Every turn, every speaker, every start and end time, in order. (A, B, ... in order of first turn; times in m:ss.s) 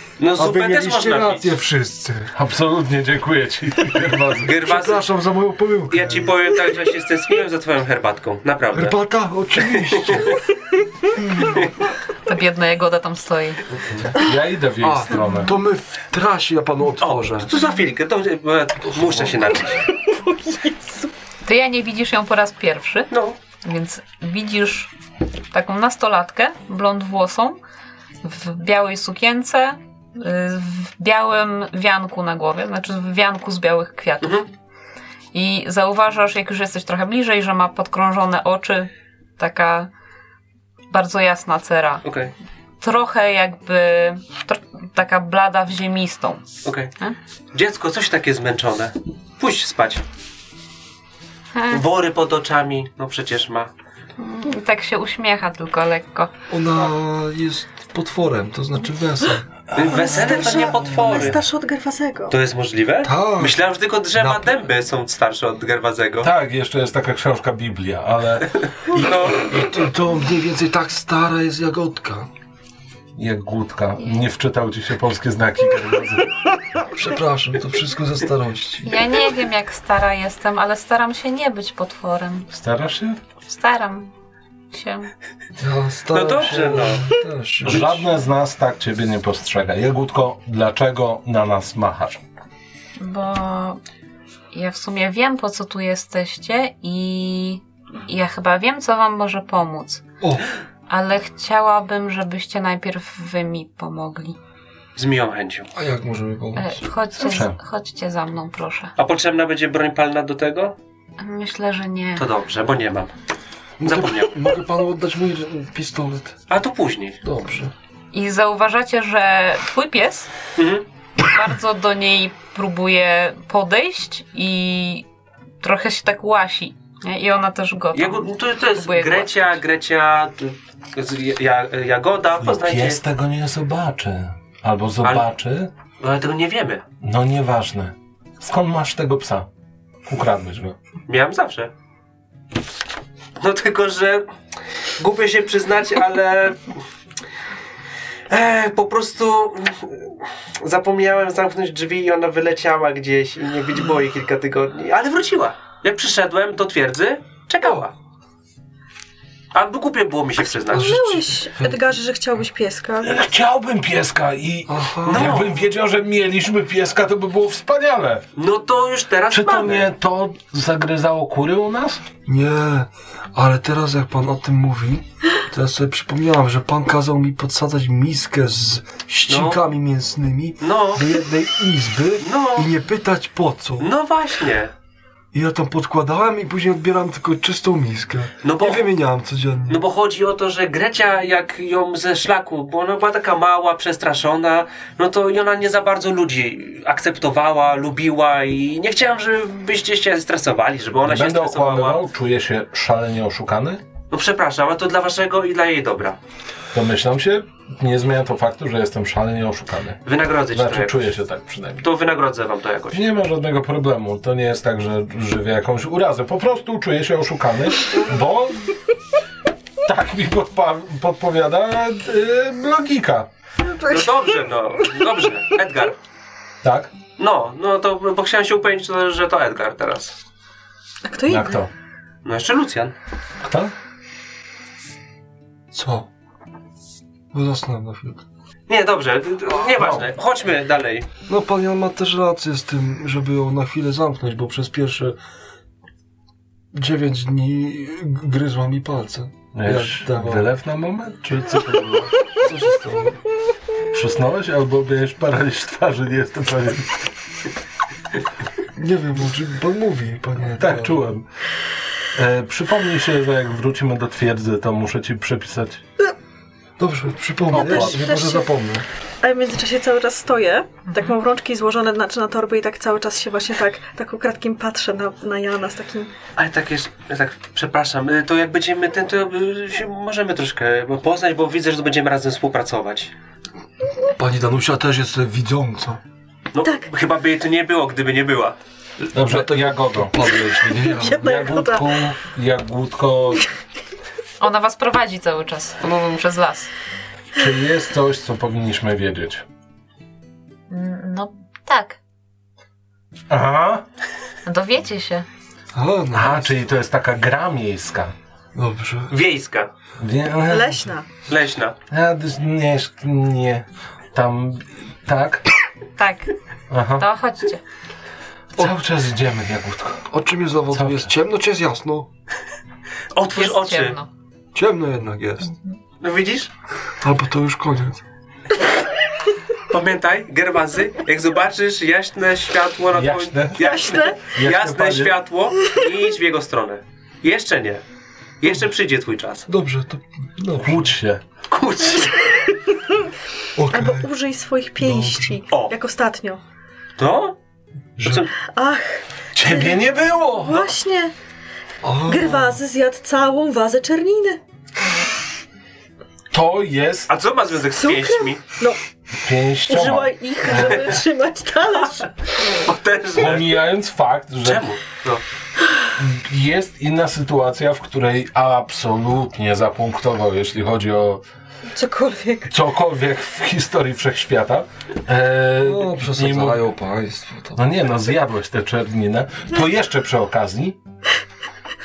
0:00.2-0:01.6 A
0:00.4-0:02.3 B
0:02.3-0:04.5 C
0:04.4-0:05.1 A
0:04.6-0:06.3 B
0:05.9-0:09.0 A
0:08.7-0:10.4 B
0:10.0-0:10.4 A
0:11.2-0:11.6 B
0:12.2-0:13.6 D
0:14.1-0:15.5 C
0:14.8-0:17.5 B
0:17.0-0:19.8 A
0:18.8-0:19.8 B
0:19.8-0:21.1 E
0:21.4-0:24.9 D
0:23.1-0:23.4 A
0:25.5-0:27.6 D
0:28.2-0:34.5 D
0:35.3-0:39.9 D
0:40.9-0:42.0 D
0:42.0-0:42.3 A
0:42.8-0:46.4 D
0:46.6-0:46.9 A
0:47.5-0:50.0 A
0:51.5-0:51.8 D
0:51.7-0:53.7 A
0:54.2-0:56.3 D
0:56.5-0:59.5 B
0:59.7-1:01.4 A
0:59.7-1:00.5 C
0:59.9-1:02.3 E
1:02.3-1:06.3 A
1:03.0-1:03.6 B
1:06.2-1:08.5 C
1:08.6-1:09.5 A
1:09.4-1:12.3 B
1:13.1-1:16.4 C
1:16.9-1:19.0 B
1:18.8-1:22.5 D
1:22.5-1:23.2 C
1:23.4-1:24.1 D
1:24.7-1:25.1 D
1:25.6-1:28.0 B
1:26.1-1:27.1 A
1:27.6-1:32.2 C
1:33.0-1:33.8 D
1:34.5-1:40.0 D
1:40.9-1:44.4 D
1:45.0-1:45.7 A
1:45.7-1:46.8 B
1:46.5-1:48.9 D
1:47.2-1:47.6 C
1:49.0-1:50.7 A
1:51.2-1:52.2 D
1:52.2-1:53.1 A
1:53.8-1:56.4 B
1:53.8-1:54.4 A
1:56.5-1:57.2 A
1:57.2-1:57.7 B
1:58.1-2:00.3 D
2:00.6-2:00.8 A
2:01.2-2:05.0 D
2:05.6-2:09.6 D
2:07.9-2:13.0 A
2:12.4-2:15.7 C
2:16.0-2:16.8 A
2:17.0-2:19.5 C
2:20.0-2:20.8 C
2:21.1-2:21.7 A
2:23.4-2:24.2 A
2:25.0-2:26.8 A
2:28.3-2:37.9 A
2:39.5-2:41.0 A
2:40.6-2:43.2 E
2:40.7-2:41.8 B
2:43.0-2:48.2 C
2:44.7-2:45.4 B
2:45.0-2:45.6 A
2:48.4-2:49.9 A
2:49.3-2:52.0 C
2:52.2-3:03.9 B
2:59.3-2:59.6 A
3:00.6-3:01.0 A
3:02.2-3:02.7 A
3:03.8-3:04.7 A
3:05.3-3:09.8 B
3:08.4-3:08.9 A
3:09.7-3:22.0 A
3:21.0-3:23.8 C
3:24.1-3:26.2 A
3:26.7-3:31.9 C
3:30.0-3:31.0 A
3:31.8-3:33.0 A
3:32.9-3:38.7 C
3:39.8-3:43.3 C
3:43.6-3:44.4 E
3:43.9-3:46.0 A
3:46.6-3:46.9 C
3:47.2-3:50.2 A
3:51.0-3:51.6 E
3:51.3-3:51.7 C
3:52.2-3:52.9 A
3:53.4-3:53.7 C
3:55.7-3:56.1 B
3:57.3-3:58.2 B
3:58.7-4:01.1 A
3:59.8-4:00.0 C
4:01.3-4:05.2 B
4:06.7-4:10.5 B
4:09.5-4:12.1 C
4:12.4-4:13.2 B
4:13.9-4:17.1 C
4:18.7-4:21.0 B
4:20.6-4:21.2 C
4:22.1-4:25.8 C
4:26.8-4:28.8 B
4:27.5-4:28.0 C
4:27.5-4:28.5 E
4:29.2-4:36.1 E
4:36.4-4:43.1 A
4:44.1-4:46.0 B
4:46.5-4:48.6 A
4:49.1-4:51.2 B
4:49.1-4:50.3 C
4:50.6-4:51.9 E
4:51.1-4:53.4 C
4:54.4-4:56.7 D
4:57.3-4:59.4 C
5:00.7-5:02.0 D
5:03.3-5:03.8 C
5:04.4-5:05.2 D
5:05.7-5:06.5 B
5:06.1-5:08.1 C
5:08.5-5:09.1 B
5:09.1-5:09.7 A
5:10.0-5:10.8 C
5:10.5-5:11.1 E
5:11.3-5:11.8 A
5:11.9-5:15.4 C
5:16.0-5:16.3 D
5:16.7-5:17.0 C
5:17.0-5:17.6 D
5:18.6-5:20.1 C
5:20.1-5:22.1 B
5:20.7-5:21.1 C
5:23.1-5:24.0 A
5:23.4-5:24.1 D
5:24.5-5:25.5 B
5:26.0-5:26.5 A
5:27.0-5:28.0 B
5:29.7-5:37.8 A
5:32.9-5:35.2 C
5:33.6-5:34.2 E
5:38.4-5:39.5 A
5:39.5-5:40.9 B
5:40.6-5:41.2 C
5:41.5-5:42.4 A
5:43.6-5:44.1 B
5:43.7-5:46.4 E
5:44.8-5:45.4 B
5:47.0-5:47.3 A
5:48.0-5:48.3 B
5:48.0-5:48.3 A
5:48.4-5:51.1 E
5:49.3-5:50.7 C
5:51.8-5:52.6 B
5:52.0-5:54.4 E
5:56.3-5:57.1 C
5:57.1-5:58.4 A
5:57.7-5:58.8 E
5:59.2-6:00.8 C
5:59.7-6:02.6 E
6:02.4-6:03.6 A
6:03.1-6:04.6 C
6:04.4-6:05.2 A
6:06.0-6:11.2 C
6:11.7-6:12.5 E
6:12.5-6:16.6 C
6:15.6-6:17.6 B
6:17.5-6:20.8 C